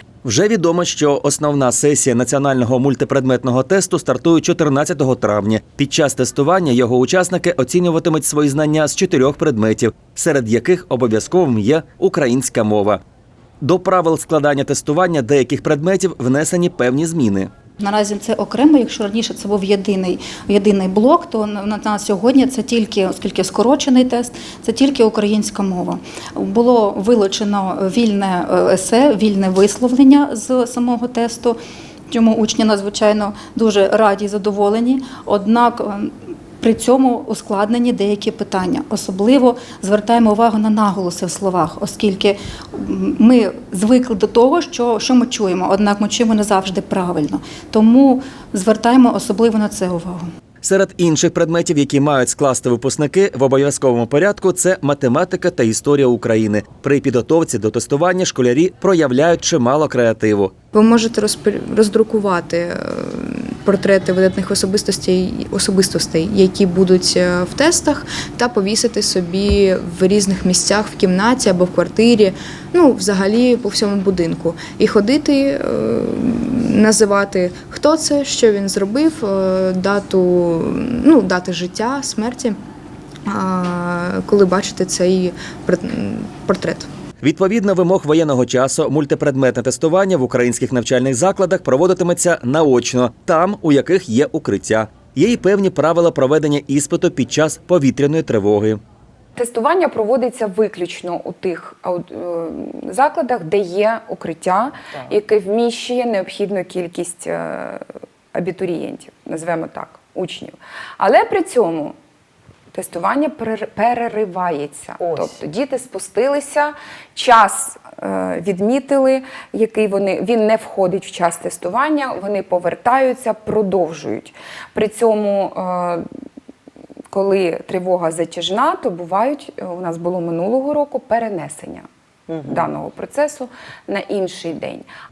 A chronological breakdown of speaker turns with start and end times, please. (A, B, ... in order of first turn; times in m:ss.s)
0:00.2-0:13.0 A
0:13.6-0:17.5 A
0:17.8-0:31.6 B
0:32.1-0:50.2 B
0:50.6-1:00.5 A
1:00.7-1:22.6 C
1:23.3-1:26.9 C
1:27.2-1:38.8 A
1:39.4-1:51.9 D
1:52.7-2:06.0 D
2:07.1-2:14.9 D